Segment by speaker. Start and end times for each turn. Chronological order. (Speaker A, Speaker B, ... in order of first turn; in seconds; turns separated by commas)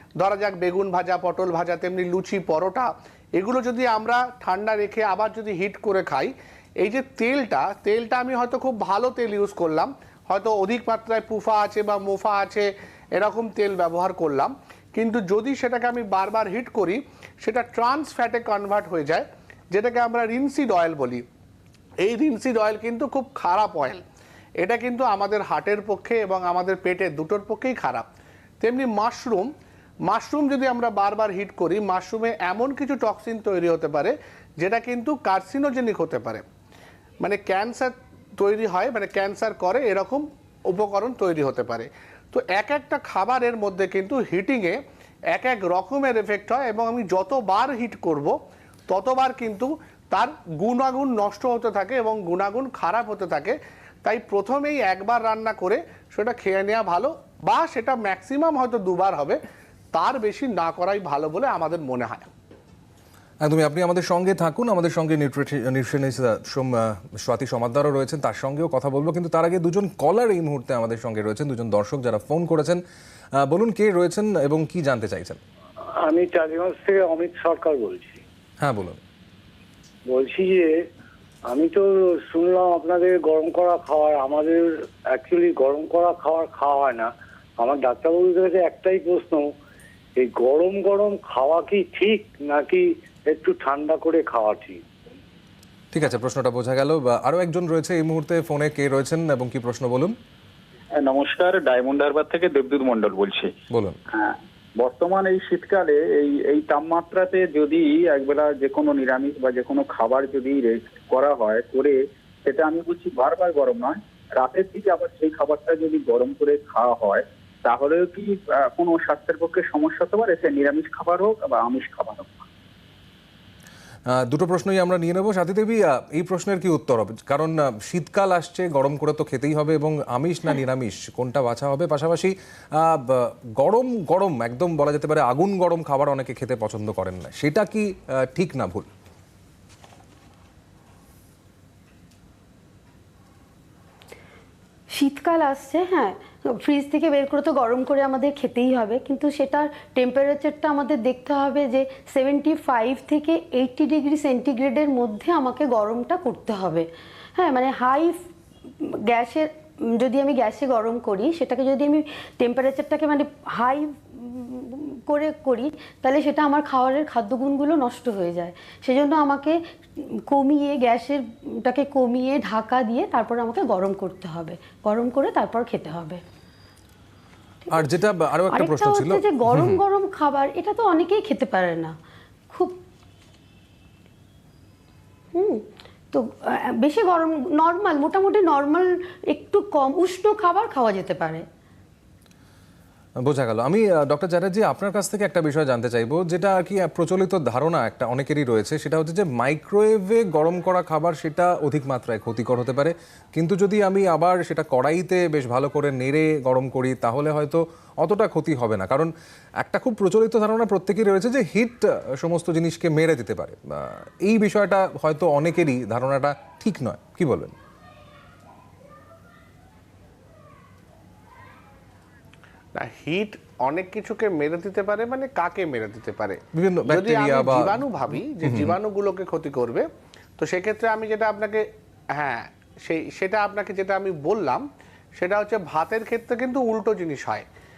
Speaker A: 0.2-21.2, Speaker A: 22.0-24.0, Speaker A: 24.6-28.1, Speaker A: 28.6-29.5, Speaker A: 30.1-36.4, Speaker A: 37.2-44.8, Speaker A: 45.3-48.4, Speaker A: 48.9-59.4, Speaker A: 59.9-62.3, Speaker B: 63.4-72.8, Speaker B: 73.3-75.4, Speaker C: 75.8-78.2, Speaker B: 78.6-79.0, Speaker C: 80.0-80.8, Speaker C: 81.4-89.5, Speaker C: 90.2-94.8, Speaker B: 95.9-100.1, Speaker D: 101.0-103.5, Speaker B: 103.7-104.0, Speaker D: 104.1-122.4, Speaker B: 124.1-138.9, Speaker E: 144.9-158.2, Speaker E: 158.8-176.2, Speaker B: 177.7-179.8, Speaker E: 178.5-181.9, Speaker E: 182.5-182.8, Speaker E: 185.3-191.4, Speaker B: 193.2-209.1, Speaker B: 209.6-217.5, Speaker A: 222.7-229.9, Speaker B: 226.5-228.7, Speaker A: 230.4-234.6, Speaker A: 235.2-237.4